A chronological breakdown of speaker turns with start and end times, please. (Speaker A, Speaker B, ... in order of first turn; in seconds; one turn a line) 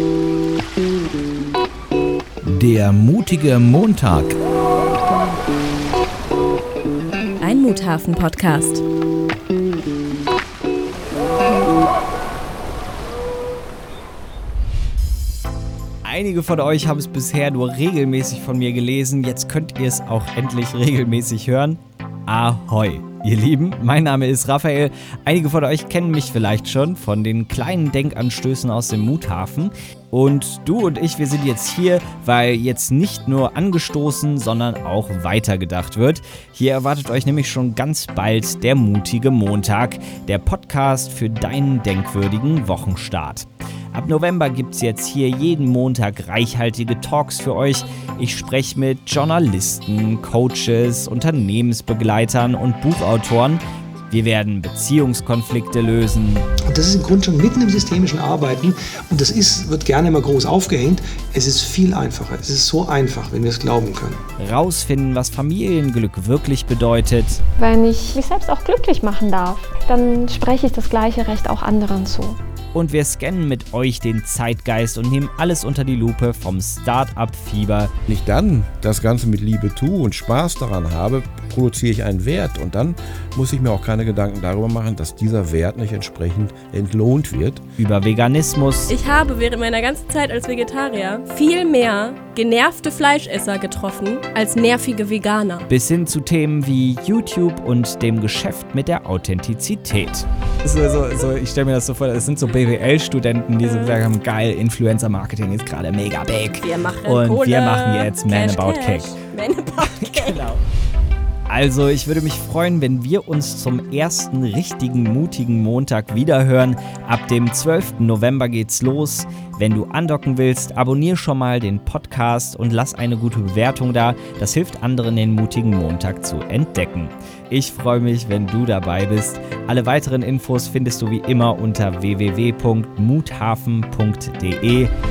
Speaker A: 7.4-8.8
Speaker B: 16.1-56.5
Speaker C: 56.7-64.2
Speaker B: 64.4-67.4
Speaker D: 67.6-72.4
Speaker B: 72.7-77.9
Speaker E: 78.1-87.6
Speaker B: 87.8-88.9
Speaker A: 88.9-95.7
Speaker B: 95.7-109.2
Speaker A: 106.5-110.4
Speaker B: 110.0-110.6
Speaker B: 111.5-134.9